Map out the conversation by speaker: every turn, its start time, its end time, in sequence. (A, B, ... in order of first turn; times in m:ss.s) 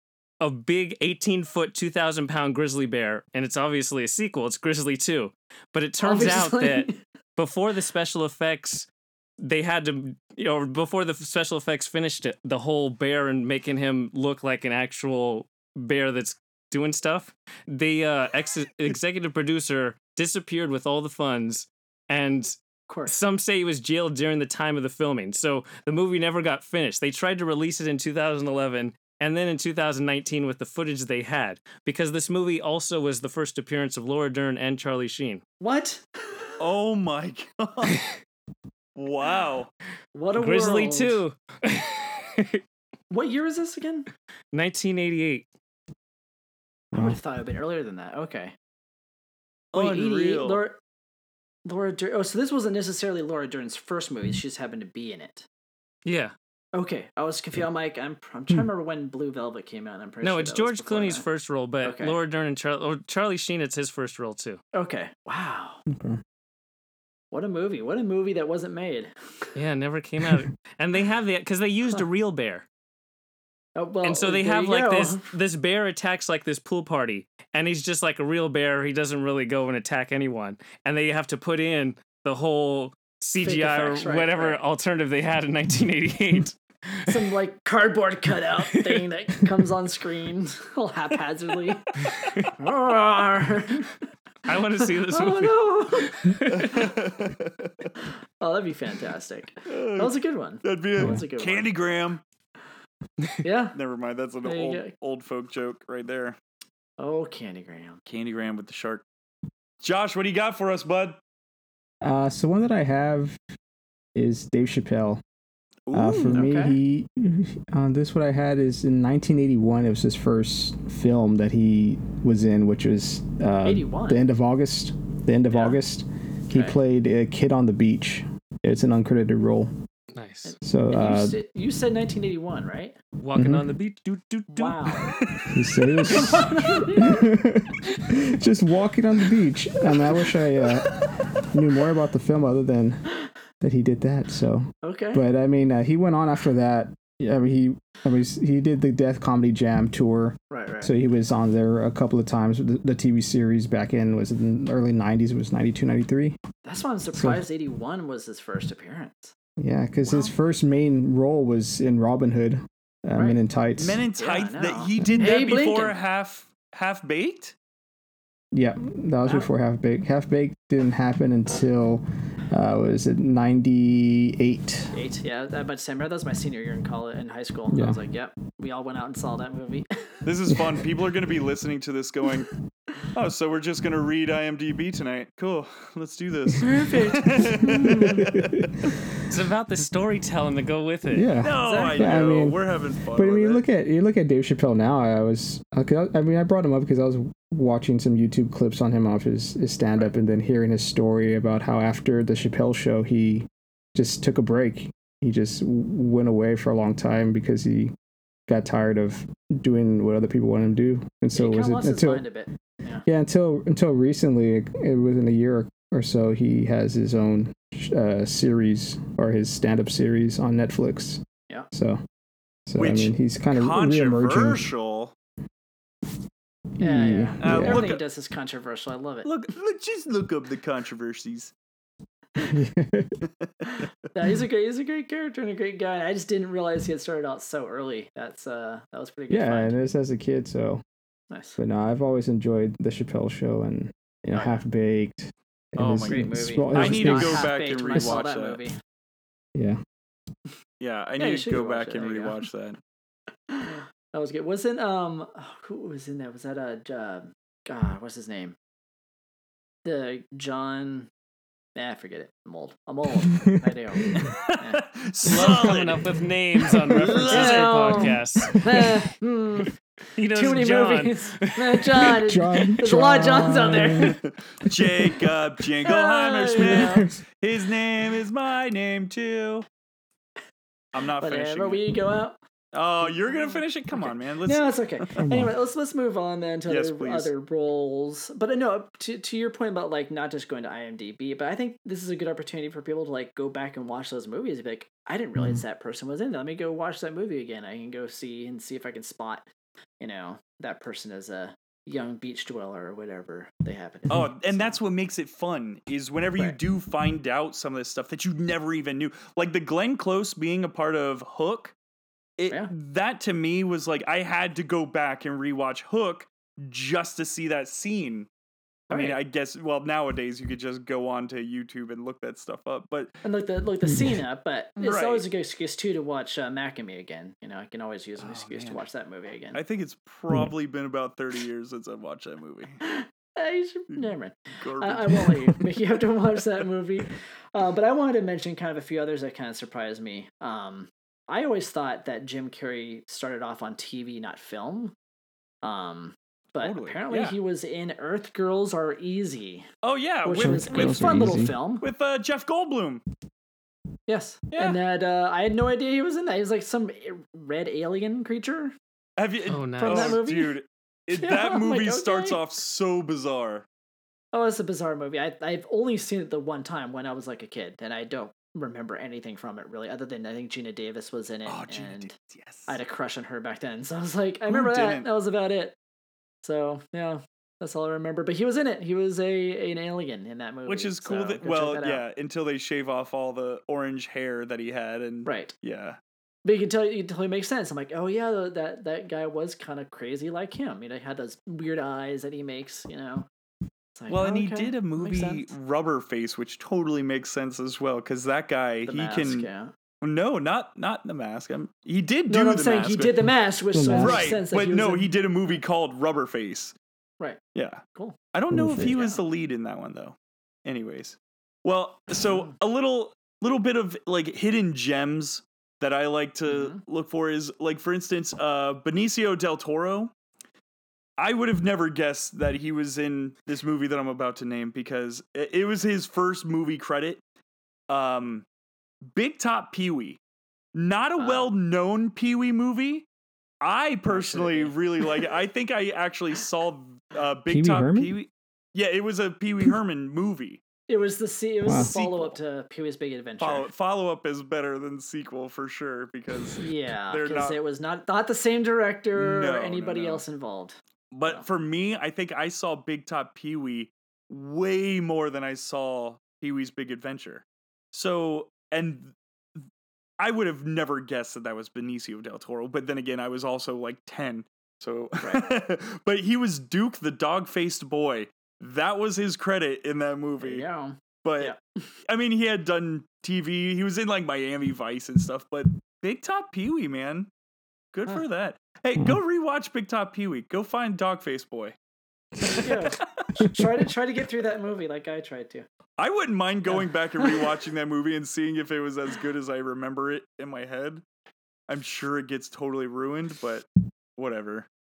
0:00.4-0:08.9 A
0:06.0-0:07.0 B
0:09.4-0:35.4 A
0:22.9-0:23.1 B
0:35.6-0:36.5 B
0:36.6-0:38.0 C
0:39.0-0:39.7 C
0:40.1-0:41.2 B
0:40.3-0:42.6 A
0:43.1-0:44.1 B
0:44.5-0:45.4 A
0:46.9-0:47.2 D
0:46.9-0:48.5 B
0:49.7-0:50.6 C
0:49.7-0:50.8 B
0:51.6-0:55.5 B
0:56.0-0:56.3 A
0:56.7-1:01.2 B
1:00.2-1:04.6 A
1:01.8-1:02.2 B
1:04.7-1:05.8 B
1:05.9-1:06.2 D
1:07.3-1:09.1 B
1:09.6-1:12.6 A
1:13.8-1:15.3 B
1:14.0-1:27.2 A
1:23.4-1:24.6 B
1:27.1-1:31.9 B
1:32.1-1:32.5 A
1:32.5-1:33.9 B
1:34.5-1:36.9 A
1:34.8-1:36.4 B
1:36.5-1:37.9 C
1:38.4-1:41.7 B
1:39.7-1:42.2 C
1:43.4-1:43.8 B
1:43.7-1:46.4 C
1:44.4-1:44.9 B
1:47.0-1:48.0 B
1:48.0-1:49.0 C
1:49.8-1:51.2 C
1:52.0-1:53.4 D
1:54.1-1:55.2 D
1:55.9-1:56.4 C
1:55.9-2:09.7 D
1:56.3-1:56.8 B
2:03.6-2:04.2 B
2:05.5-2:05.8 B
2:10.1-2:10.5 A
2:10.4-2:13.0 B
2:10.6-2:11.4 D
2:13.2-2:15.0 A
2:13.3-2:13.6 D
2:14.5-2:15.1 B
2:15.2-2:15.5 C
2:15.5-2:23.0 D
2:16.1-2:17.3 B
2:23.6-2:36.4 D
2:24.8-2:25.2 B
2:30.5-2:30.9 B
2:36.6-2:39.3 B
2:37.1-2:37.4 D
2:39.6-2:44.0 D
2:40.0-2:40.3 B
2:43.8-2:47.5 C
2:44.2-2:46.0 B
2:48.5-2:54.9 D
2:49.2-2:49.5 B
2:54.9-3:00.2 B
2:57.7-2:58.0 D
3:00.2-3:02.5 C
3:03.1-3:08.9 C
3:06.6-3:08.3 B
3:08.2-3:08.6 D
3:09.3-3:11.3 A
3:11.1-3:27.9 D
3:11.4-3:13.6 C
3:11.6-3:12.3 B
3:28.5-3:32.2 D
3:31.3-3:33.0 B
3:33.0-3:41.2 D
3:41.7-3:42.0 D
3:42.7-3:44.6 D
3:42.8-3:45.1 C
3:46.8-3:47.8 D
3:46.8-3:49.3 B
3:47.4-3:48.0 C
3:49.2-3:51.5 C
3:52.4-3:53.2 D
3:53.2-3:53.9 C
3:54.1-3:59.8 B
3:59.3-4:00.8 D
4:01.3-4:01.6 B
4:01.6-4:08.1 D
4:04.3-4:04.6 B
4:05.8-4:08.6 C
4:06.0-4:08.8 B
4:10.8-4:12.8 C
4:11.2-4:12.4 B
4:13.5-4:18.6 B
4:19.8-4:21.1 B
4:21.8-4:24.8 B
4:24.0-4:24.2 D
4:24.2-4:26.1 C
4:25.2-4:28.6 A
4:26.8-4:27.8 C
4:26.9-4:27.3 D
4:27.3-4:29.7 B
4:30.2-4:32.1 A
4:30.3-4:34.1 B
4:32.2-4:34.2 D
4:34.0-4:39.6 C
4:35.8-4:37.1 B
4:36.6-4:37.1 D
4:40.9-4:41.8 C
4:41.2-4:42.4 B
4:42.7-4:45.2 C
4:43.0-4:59.4 B
4:45.2-4:45.5 D
4:46.7-4:47.3 C
5:00.0-5:04.7 B
5:04.1-5:11.7 C
5:12.4-5:18.3 C
5:18.9-5:23.1 C
5:18.9-5:19.2 B
5:23.2-5:29.6 B
5:23.8-5:24.2 D
5:24.8-5:25.2 C
5:28.2-5:28.8 C
5:29.5-5:32.8 C
5:32.8-5:44.9 B
5:33.9-5:35.6 C
5:45.6-5:49.7 B
5:46.6-5:47.4 C
5:49.8-5:53.0 C
5:50.2-5:51.8 B
5:50.4-5:51.5 D
5:54.1-5:58.7 B
5:54.5-5:54.8 C
5:59.2-6:03.6 C
5:59.4-6:00.2 A
5:59.8-6:00.6 B
6:01.1-6:02.4 B
6:04.3-6:12.1 B
6:11.4-6:12.8 C
6:12.7-6:15.8 B
6:14.5-6:15.0 C
6:16.4-6:22.0 B
6:20.6-6:26.0 C
6:25.2-6:25.5 B
6:26.4-6:33.3 B
6:34.0-6:35.4 B
6:34.1-6:39.5 C
6:38.8-6:39.7 B
6:40.0-6:43.2 C
6:42.3-6:45.6 B
6:43.7-6:44.3 D
6:44.0-6:46.7 C
6:47.5-7:00.1 C
6:48.5-6:49.0 D
6:48.9-6:49.2 B
6:52.2-6:52.6 B
6:56.5-6:56.8 B
7:01.2-7:07.2 C
7:07.9-7:08.4 C
7:09.1-7:10.2 C
7:10.7-7:13.1 C
7:11.2-7:11.5 B
7:13.6-7:20.6 C
7:14.1-7:15.0 B
7:17.5-7:18.2 D
7:20.9-7:23.7 B
7:21.6-7:21.9 D
7:21.7-7:22.4 C
7:23.4-7:27.6 C
7:26.6-7:31.4 B
7:29.2-7:30.2 C
7:31.1-7:39.1 C
7:40.2-7:50.6 C
7:45.2-7:45.5 B
7:50.4-7:51.6 B
7:51.2-7:51.5 C
7:52.1-7:57.3 C
7:57.9-8:01.8 C
8:02.4-8:03.4 C
8:02.5-8:05.7 B
8:06.0-8:11.0 C
8:06.7-8:07.6 B
8:11.7-8:14.7 C